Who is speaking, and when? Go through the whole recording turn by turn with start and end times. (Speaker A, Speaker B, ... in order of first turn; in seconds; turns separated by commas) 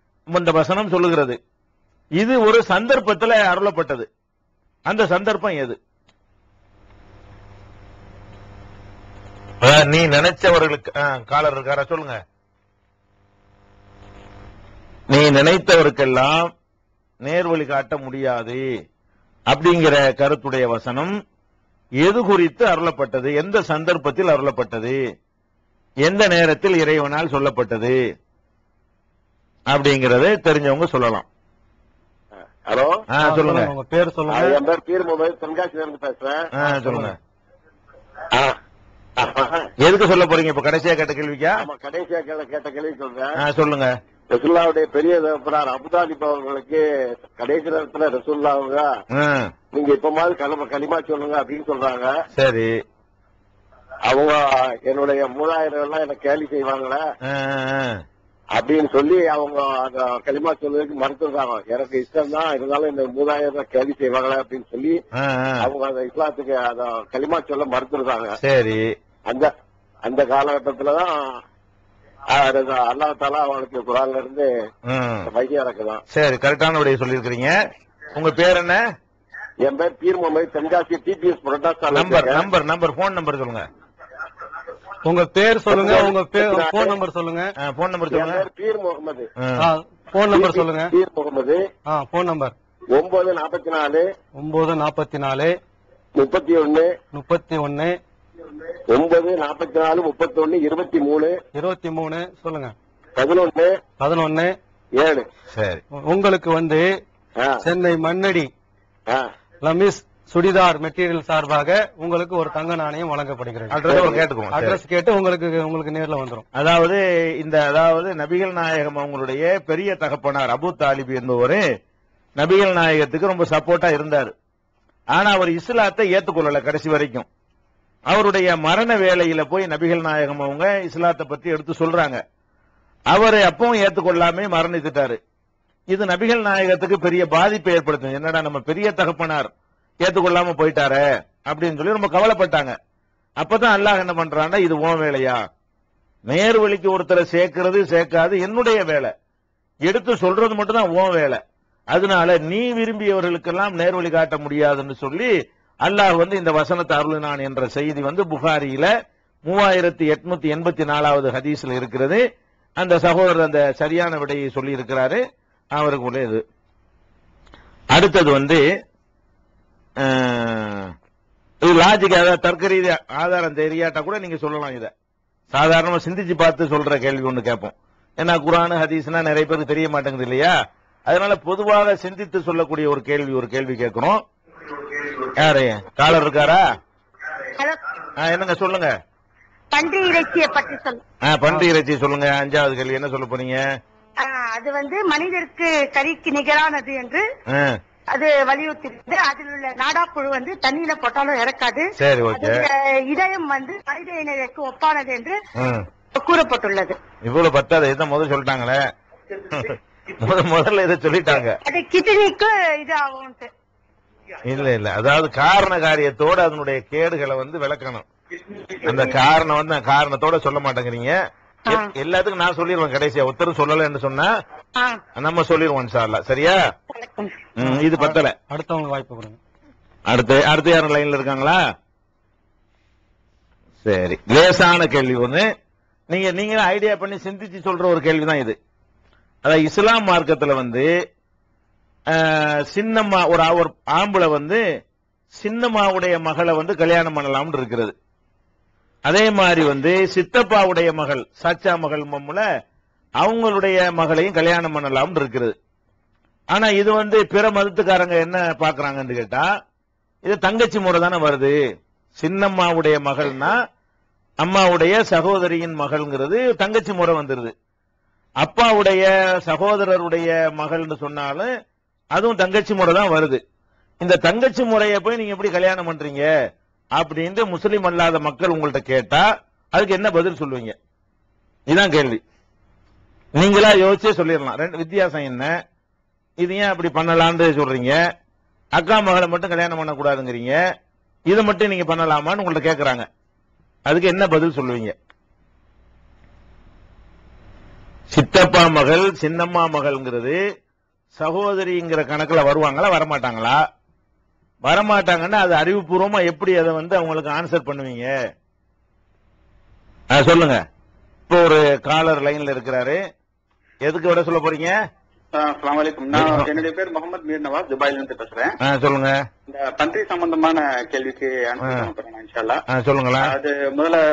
Speaker A: 0.3-1.4, Speaker A: 2.2-4.1, Speaker A: 4.9-5.8, Speaker A: 9.6-12.2, Speaker A: 15.1-16.5, Speaker A: 17.2-18.6, Speaker A: 19.5-21.1, Speaker A: 22.0-25.0, Speaker A: 26.1-27.9, Speaker A: 29.7-31.2, Speaker B: 32.7-33.0, Speaker A: 33.1-33.7, Speaker C: 33.2-34.6, Speaker B: 34.3-36.5, Speaker A: 36.5-37.1, Speaker C: 36.7-37.1, Speaker B: 39.2-39.7, Speaker A: 39.8-41.6, Speaker B: 41.6-43.3, Speaker A: 43.4-43.9, Speaker B: 44.3-48.9, Speaker A: 49.1-49.5, Speaker B: 49.7-52.1, Speaker A: 52.3-52.7, Speaker B: 54.1-57.0, Speaker A: 57.2-57.9, Speaker B: 58.5-65.0, Speaker A: 65.1-65.7, Speaker B: 65.6-68.3, Speaker A: 68.4-68.8, Speaker B: 70.0-71.4, Speaker B: 72.3-74.5, Speaker A: 74.9-75.3, Speaker B: 75.3-76.0, Speaker A: 76.1-77.5, Speaker A: 78.1-78.8, Speaker B: 79.6-82.4, Speaker A: 81.9-83.6, Speaker C: 85.0-87.5, Speaker B: 85.7-87.0, Speaker A: 87.6-88.4, Speaker B: 88.1-89.3, Speaker A: 89.4-89.7, Speaker C: 89.6-90.9, Speaker B: 90.3-91.6, Speaker C: 91.9-92.5, Speaker B: 92.9-94.1, Speaker C: 94.3-95.5, Speaker B: 96.2-96.9, Speaker C: 97.1-98.0, Speaker B: 98.9-101.4, Speaker C: 101.5-102.7, Speaker B: 103.2-103.8, Speaker C: 104.0-104.5, Speaker B: 105.0-105.3, Speaker A: 105.5-105.8, Speaker C: 105.9-106.9, Speaker B: 107.4-107.6, Speaker C: 107.6-108.5, Speaker C: 109.6-113.8, Speaker A: 113.7-114.8, Speaker B: 113.9-114.2, Speaker C: 114.5-116.4, Speaker A: 116.6-121.6, Speaker A: 122.4-124.3, Speaker A: 125.1-127.2, Speaker A: 128.1-132.2, Speaker A: 133.1-135.2, Speaker A: 135.9-139.5, Speaker A: 140.0-142.8, Speaker A: 143.4-145.4, Speaker A: 146.3-149.1, Speaker A: 149.9-151.4, Speaker A: 151.9-155.3, Speaker A: 155.8-158.9, Speaker A: 159.4-162.2, Speaker A: 162.8-165.2, Speaker A: 165.8-166.4, Speaker A: 167.9-168.6, Speaker A: 170.0-170.9, Speaker A: 171.6-174.9, Speaker A: 175.5-180.5, Speaker A: 181.1-184.2, Speaker A: 185.4-186.6, Speaker A: 188.2-188.9, Speaker D: 189.7-191.0, Speaker A: 191.2-193.6, Speaker D: 194.2-197.2, Speaker D: 198.1-205.4, Speaker A: 202.0-202.6, Speaker A: 205.6-205.8, Speaker D: 206.1-207.0, Speaker A: 207.2-208.8, Speaker A: 209.5-211.6, Speaker D: 211.6-213.5, Speaker A: 214.4-218.1, Speaker A: 218.7-221.1, Speaker A: 221.7-224.3, Speaker D: 224.8-225.0, Speaker A: 225.2-226.6, Speaker D: 226.9-227.5, Speaker A: 227.6-228.3, Speaker C: 227.6-229.4, Speaker A: 230.1-231.6, Speaker A: 233.8-235.4, Speaker A: 236.1-238.6, Speaker A: 239.4-240.9, Speaker A: 242.1-244.6, Speaker A: 245.4-247.9, Speaker A: 249.1-252.4, Speaker A: 253.2-255.5, Speaker A: 256.5-259.5, Speaker A: 260.2-261.6, Speaker A: 262.2-263.6, Speaker A: 264.4-267.5, Speaker A: 268.4-271.5, Speaker A: 272.1-273.4, Speaker A: 274.0-276.3, Speaker A: 277.0-280.8, Speaker A: 281.7-282.2, Speaker A: 283.4-285.5, Speaker A: 286.4-288.0, Speaker A: 288.8-290.6, Speaker A: 291.3-293.1, Speaker A: 293.9-294.9, Speaker A: 298.1-300.4, Speaker A: 301.2-303.6, Speaker A: 304.6-308.1, Speaker A: 310.1-310.6, Speaker A: 311.3-313.0, Speaker A: 313.8-314.7, Speaker E: 315.3-318.5, Speaker A: 316.1-316.5, Speaker A: 318.6-319.1, Speaker E: 319.5-322.6, Speaker A: 321.6-321.9, Speaker A: 322.7-323.3, Speaker E: 323.2-324.0